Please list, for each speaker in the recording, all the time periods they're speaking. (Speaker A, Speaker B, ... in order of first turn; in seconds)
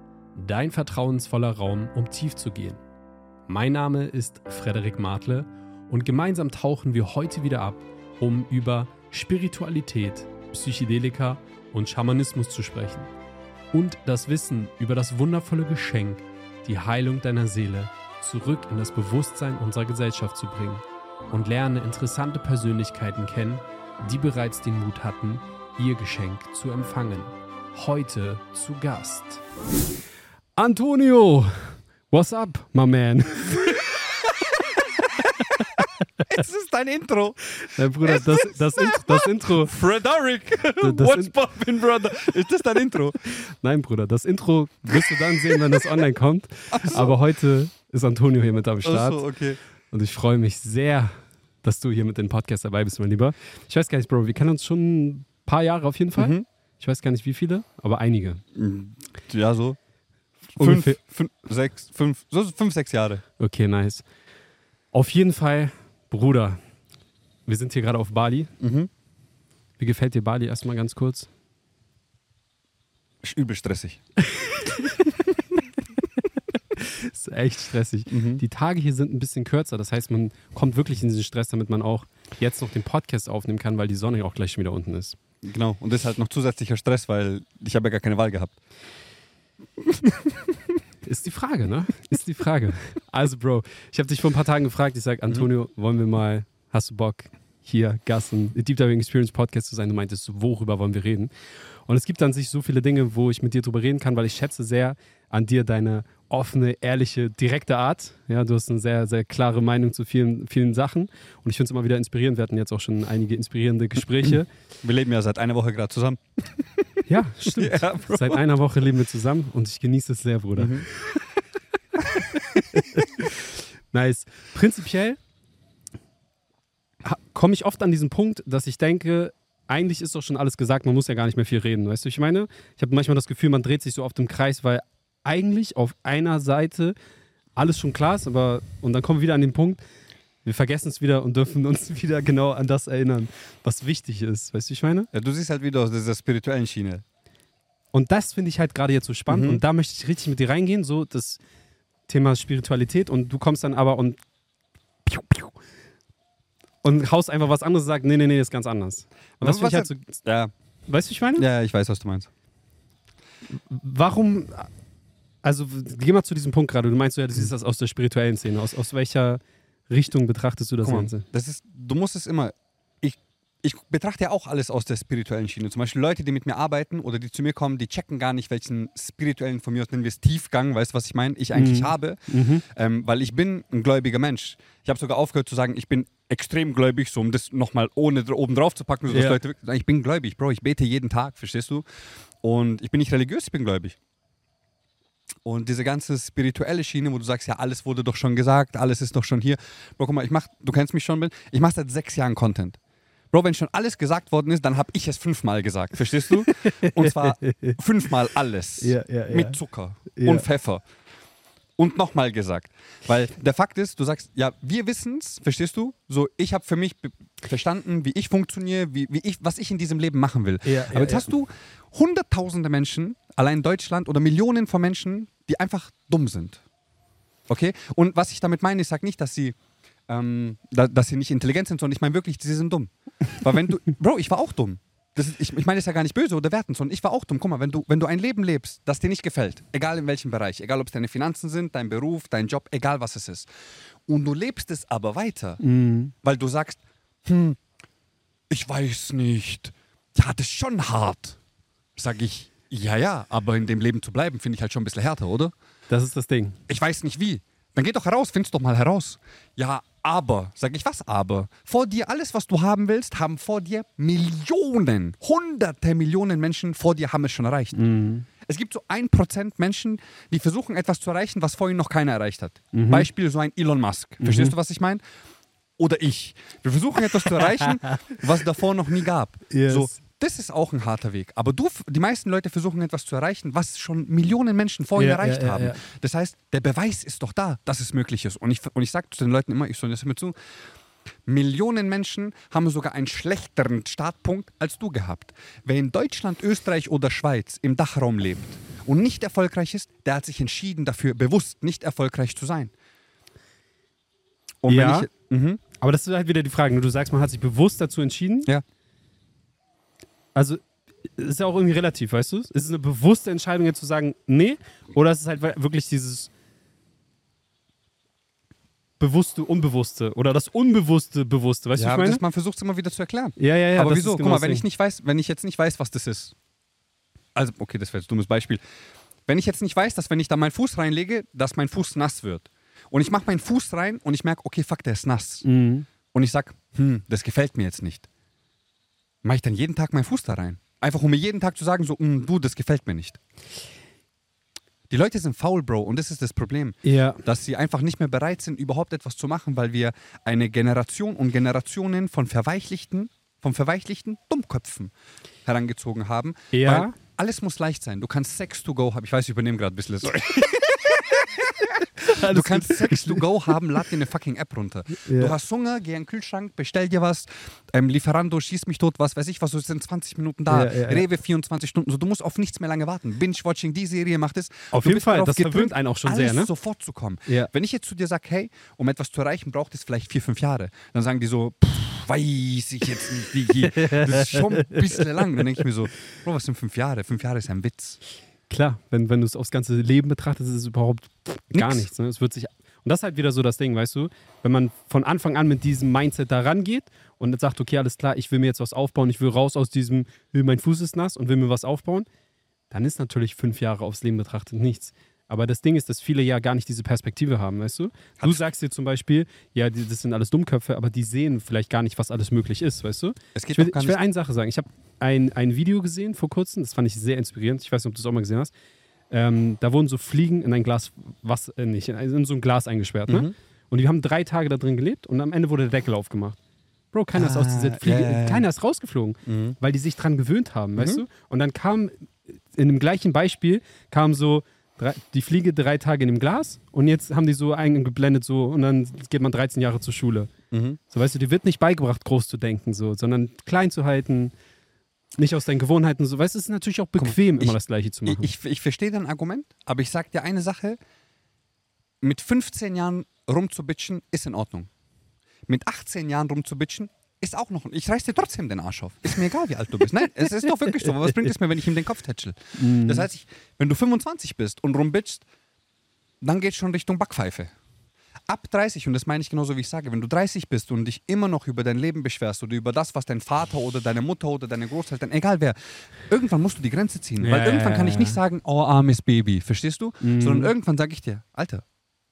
Speaker A: 0.3-2.8, 3.5-13.1, 13.7-29.4, 30.6-33.9, 35.2-35.9, 37.6-39.7, 40.8-41.3, 43.2-49.2, 49.9-58.4, 60.6-61.0, 63.4-64.0, 64.9-66.6, 67.5-68.5, 69.8-71.3, 74.3-75.0, 76.8-85.2, 91.0-101.3, 101.9-114.5, 117.1-120.8, 122.8-123.3, 123.9-125.2, 127.0-136.9, 137.6-139.8, 140.4-145.1, 147.9-151.4, 152.1-154.2, 155.1-155.5, 156.8-160.2, 160.9-161.5, 163.6-164.7, 165.4-171.2, 181.5-182.7, 189.1-189.4, 206.4-207.8, 208.8-209.6, 210.1-210.4, 220.6-221.3, 245.6-246.1, 255.9-256.6, 267.7-268.3, 272.7-273.1, 274.2-274.6, 277.3-278.2, 279.5-279.9, 285.0-285.8, 304.7-305.1, 305.8-308.5, 310.4-310.6, 311.2-316.3, 319.0-322.2, 323.4-324.6, 335.4-335.9, 346.8-347.2, 356.5-356.9, 362.0-363.8, 365.0-365.3, 370.5-371.1, 374.7-376.5, 383.6-385.4, 388.5-402.1, 402.7-418.5, 419.1-426.4, 426.9-440.3, 440.9-444.3, 445.2-448.3, 462.6-463.1, 477.2-478.2, 480.0-480.5
Speaker B: 34.8-37.5, 38.0-43.2, 44.9-45.8, 46.7-47.2, 48.8-49.6, 56.2-56.5, 58.5-59.8, 60.6-63.2, 68.6-68.9, 73.2-74.0, 78.1-78.4, 85.4-88.6, 89.8-90.6, 114.8-118.4, 120.6-120.9, 122.0-123.0, 145.1-147.0, 149.3-149.6, 159.4-160.5, 161.4-162.3, 170.8-191.9, 192.4-194.0, 195.4-202.8, 203.3-210.8, 211.8-226.6, 227.5-229.6, 230.1-243.5, 244.1-245.6, 246.2-247.6, 248.5-251.4, 252.0-255.5, 256.7-267.8, 268.4-275.0, 275.8-290.4, 291.3-302.7, 304.6-305.6, 321.8-326.4, 327.4-328.6, 329.3-335.5, 336.1-338.1, 339.2-343.2, 344.9-354.9, 355.4-388.0, 391.5-391.9, 413.4-414.0, 423.1-423.3, 427.1-428.5, 429.3-429.6, 430.8-431.0, 440.5-440.8, 447.0-447.6, 448.1-450.8, 452.0-454.7, 455.5-465.2, 466.2-467.5, 468.3-481.6